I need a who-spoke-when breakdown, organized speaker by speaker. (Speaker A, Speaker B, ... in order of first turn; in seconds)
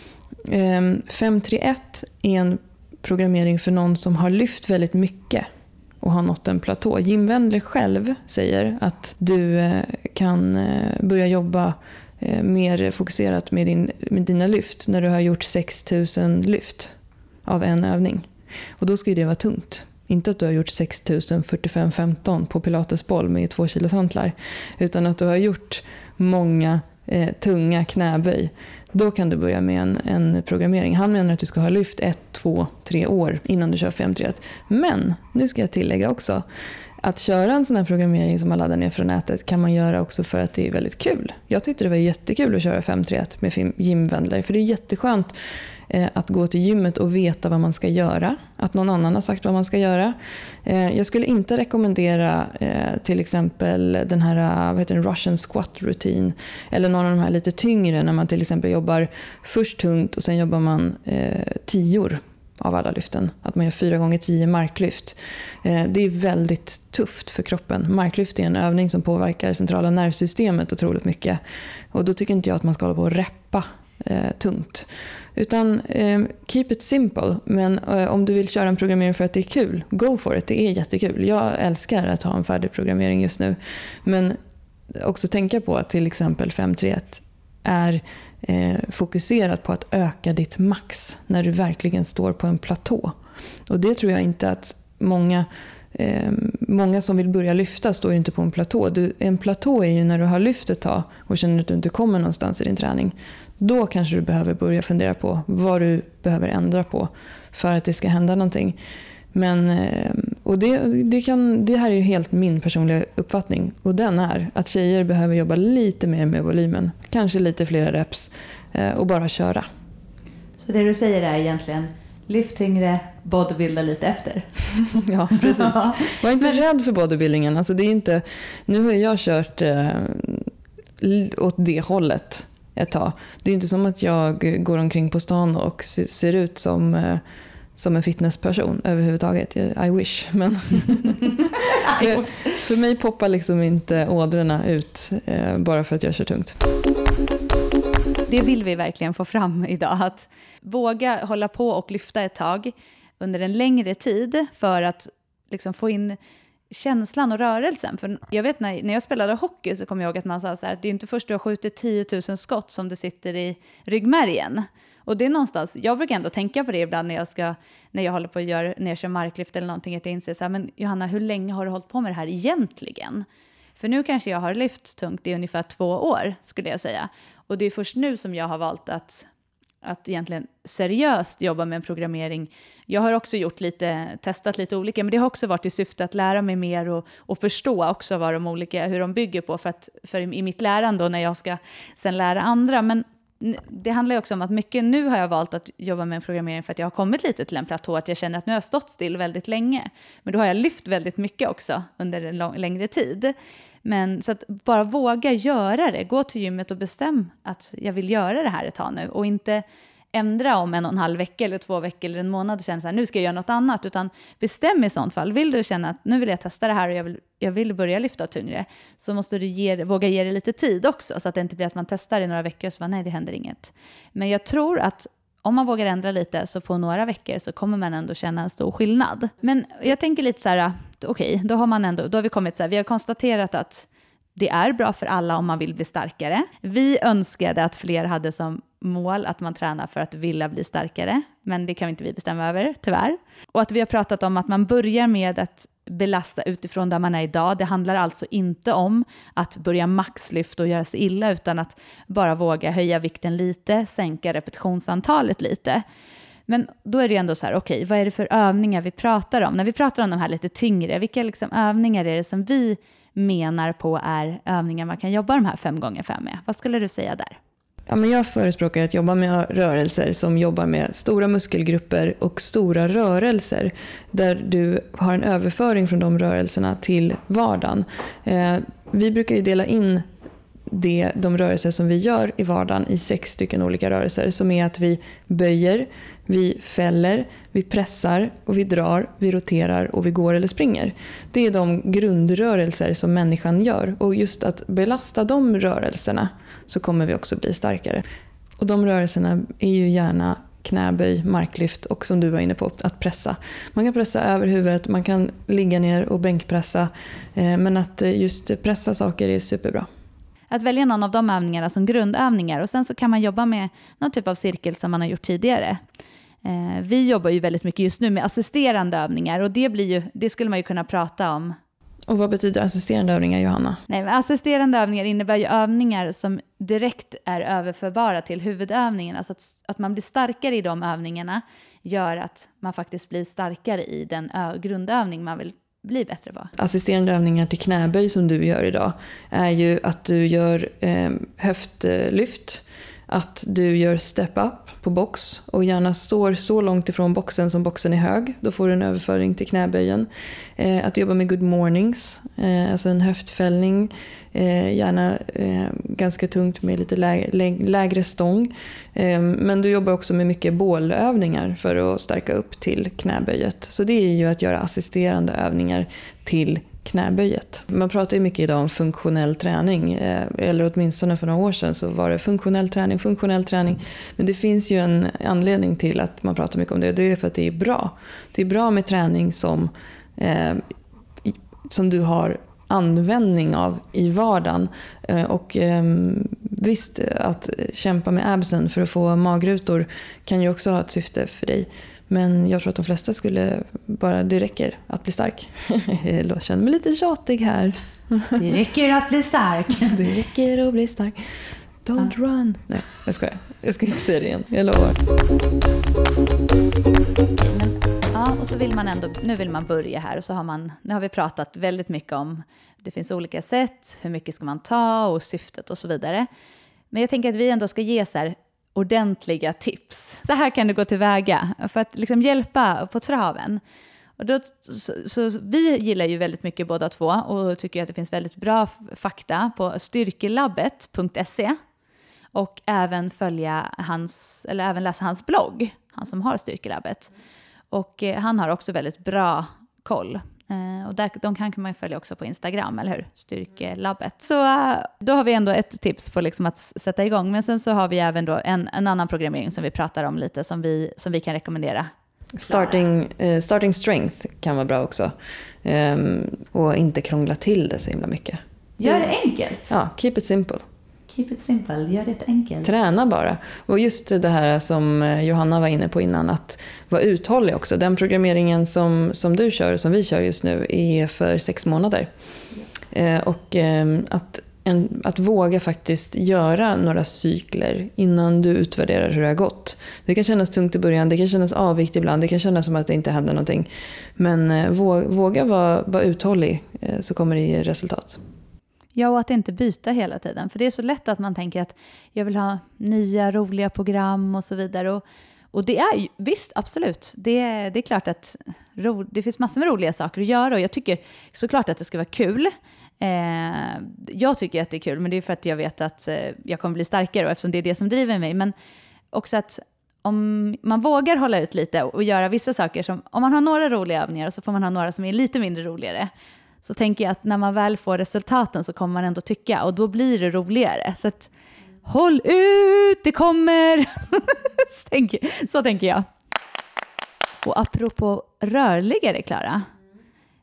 Speaker A: 0.4-5.5, 6.0-18.3, 18.8-36.4, 37.0-45.3, 45.9-71.4, 71.9-84.4, 84.9-93.1, 93.7-108.8, 109.3-119.7, 124.9-137.2, 137.8-146.6, 267.9-280.1, 280.7-298.0, 298.6-309.9, 322.1-323.8, 336.6-380.6, 381.2-398.4, 399.8-401.2, 401.8-404.9, 452.4-455.1, 455.6-459.1, 459.7-460.6, 462.6-472.1, 472.9-488.2
Speaker B: 120.6-126.5, 141.3-142.7, 148.3-156.2, 156.7-173.2, 173.8-179.3, 179.8-255.8, 256.5-267.4, 310.5-315.8, 316.4-321.6, 323.9-336.5, 398.4-400.1, 407.3-416.3, 416.9-423.6, 424.2-431.6, 432.3-437.1, 437.7-451.9, 452.4-452.8, 458.8-459.7, 461.1-462.7, 488.9-508.5, 509.1-516.1, 516.6-521.3, 521.8-526.0, 527.4-529.7